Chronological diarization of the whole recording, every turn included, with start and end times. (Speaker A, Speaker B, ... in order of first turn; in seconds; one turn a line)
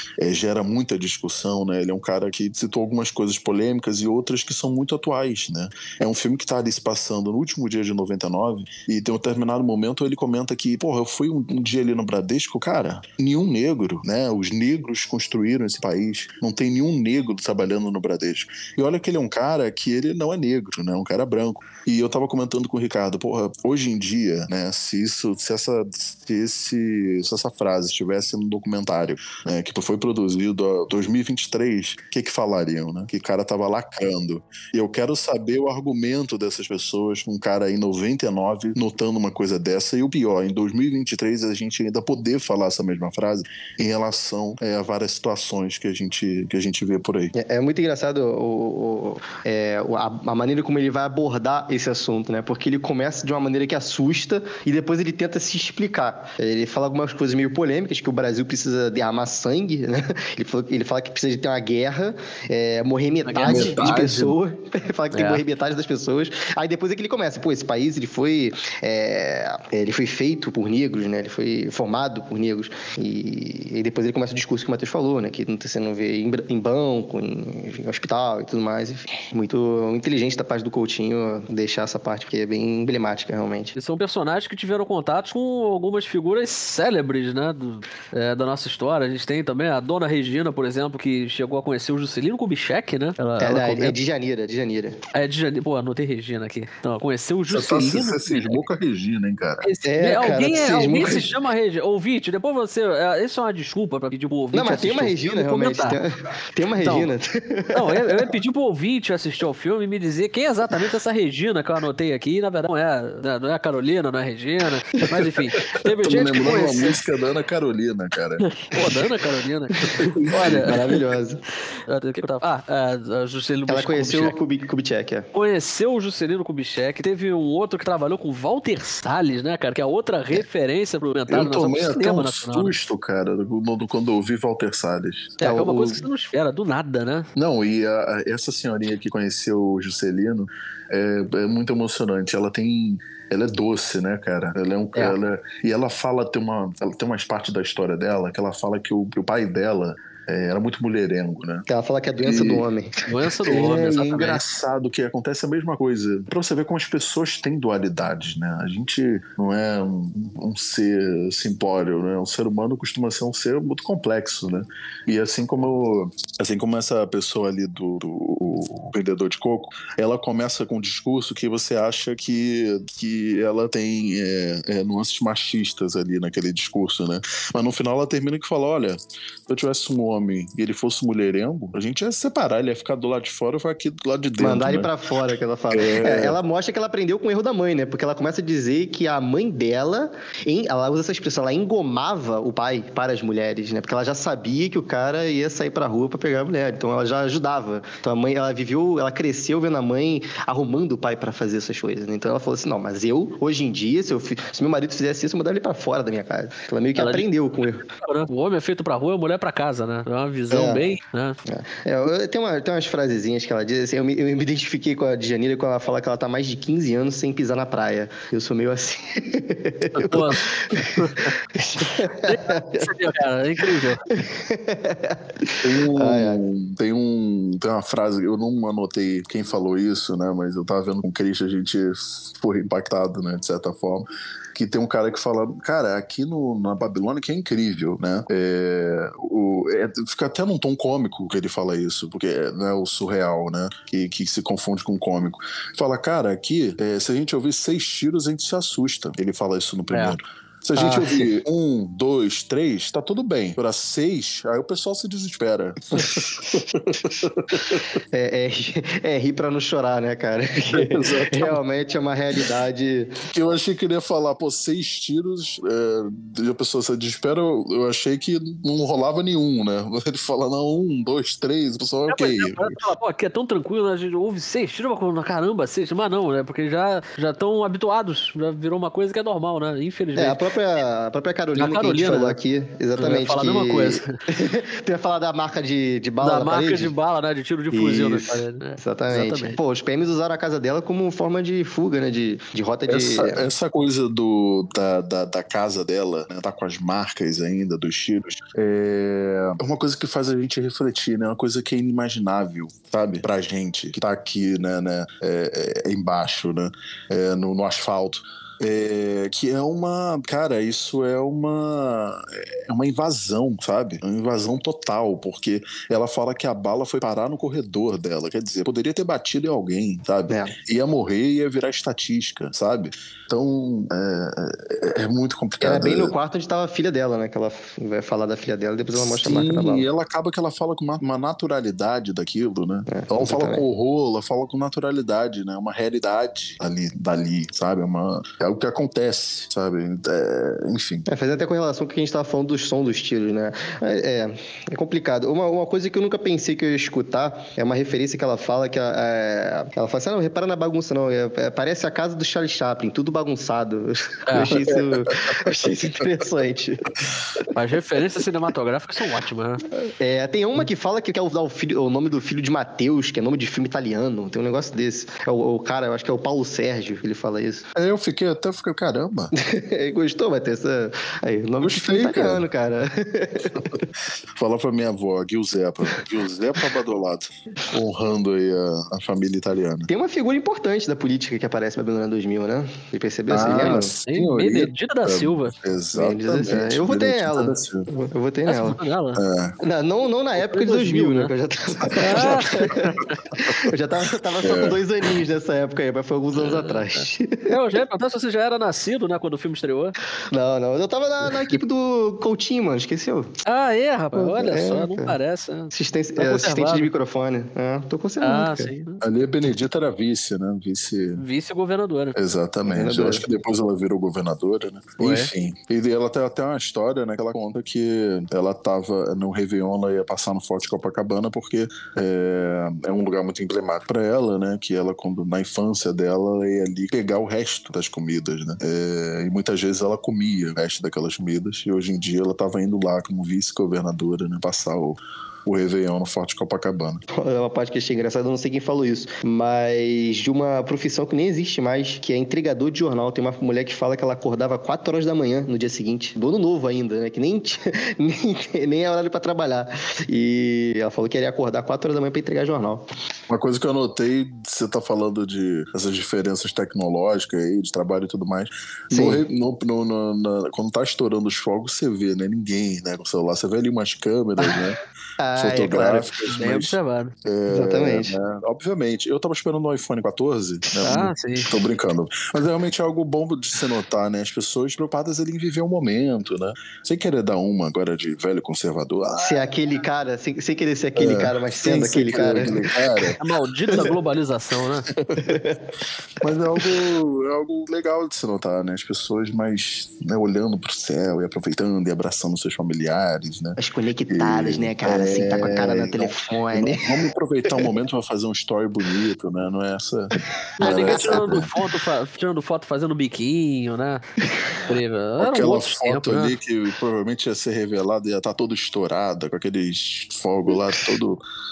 Speaker A: 0.2-47.3
Speaker B: 47.3-83.7
Speaker C: 63.2-64.0
Speaker A: 63.5-64.3
Speaker C: 65.1-65.4
Speaker C: 83.7-94.0
Speaker B: 93.4-95.0
Speaker C: 95.1-98.6
Speaker A: 97.5-99.7
Speaker C: 99.6-106.0
Speaker B: 99.8-101.3
Speaker B: 104.5-108.3
Speaker C: 106.8-107.1
Speaker C: 107.7-117.0
Speaker A: 115.1-118.5
Speaker C: 118.4-121.0
Speaker A: 119.9-121.0
Speaker B: 120.4-121.4
Speaker C: 121.9-124.3
Speaker B: 123.7-125.3
Speaker C: 125.3-132.7
Speaker A: 131.3-135.4
Speaker C: 135.4-137.3
Speaker B: 135.4-136.0
Speaker A: 137.3-151.6
Speaker B: 151.7-154.1
Speaker A: 152.2-152.7
Speaker C: 153.1-154.4
Speaker A: 153.5-179.0
Speaker A: 179.5-184.9
Speaker B: 184.4-207.8
Speaker A: 185.7-186.4
Speaker C: 206.9-207.3
Speaker C: 207.8-211.4
Speaker B: 210.5-210.8
Speaker B: 211.4-222.9
Speaker C: 219.9-221.3
Speaker C: 222.1-224.0
Speaker B: 224.1-226.4
Speaker A: 225.6-258.0
Speaker C: 249.9-250.2
Speaker B: 250.8-251.3
Speaker B: 258.1-263.1
Speaker A: 260.7-261.6
Speaker A: 263.2-272.8
Speaker C: 272.1-280.5
Speaker B: 280.1-286.9
Speaker C: 281.5-282.4
Speaker C: 283.0-284.2
Speaker C: 286.2-289.6
Speaker B: 287.7-293.4
Speaker A: 292.9-326.1
Speaker B: 320.3-320.5
Speaker B: 325.6-329.9
Speaker A: 328.9-341.1
Speaker B: 332.9-333.6
Speaker B: 341.1-356.9
Speaker C: 354.3-354.8
Speaker C: 357.5-359.6
Speaker B: 360.0-367.7
Speaker A: 367.7-369.3
Speaker B: 369.3-373.8
Speaker A: 371.6-372.4
Speaker A: 374.4-379.9
Speaker B: 379.9-383.9
Speaker A: 383.3-387.9
Speaker C: 384.0-385.5
Speaker B: 385.9-388.8
Speaker C: 388.4-389.2
Speaker A: 389.1-389.6
Speaker B: 389.6-397.5
Speaker C: 390.4-391.3
Speaker A: 391.8-392.4
Speaker C: 392.0-393.2
Speaker A: 394.4-394.8
Speaker C: 396.4-399.9
Speaker B: 400.3-403.3
Speaker C: 403.4-406.9
Speaker B: 404.1-405.2
Speaker B: 405.7-408.7
Speaker C: 408.2-409.0
Speaker A: 409.0-411.2
Speaker C: 411.2-412.1
Speaker A: 412.1-437.0
Speaker B: 412.6-413.2
Speaker C: 415.0-415.3
Speaker B: 437.1-452.8
Speaker A: 453.3-464.8
Speaker B: 458.9-459.2
Speaker B: 465.2-466.1
Speaker A: 465.4-479.5
Speaker C: 466.3-467.1
Speaker B: 467.5-468.1
Speaker C: 470.8-471.6
Speaker B: 479.2-483.1
Speaker A: 480.9-483.2
Speaker C: 483.2-484.9
Speaker A: 484.9-485.4
Speaker B: 485.2-485.6
Speaker A: 486.2-493.6
Speaker B: 493.6-497.0
Speaker A: 494.1-501.5
Speaker C: 500.6-504.0
Speaker B: 500.6-501.4
Speaker C: 504.6-506.4
Speaker A: 505.2-511.2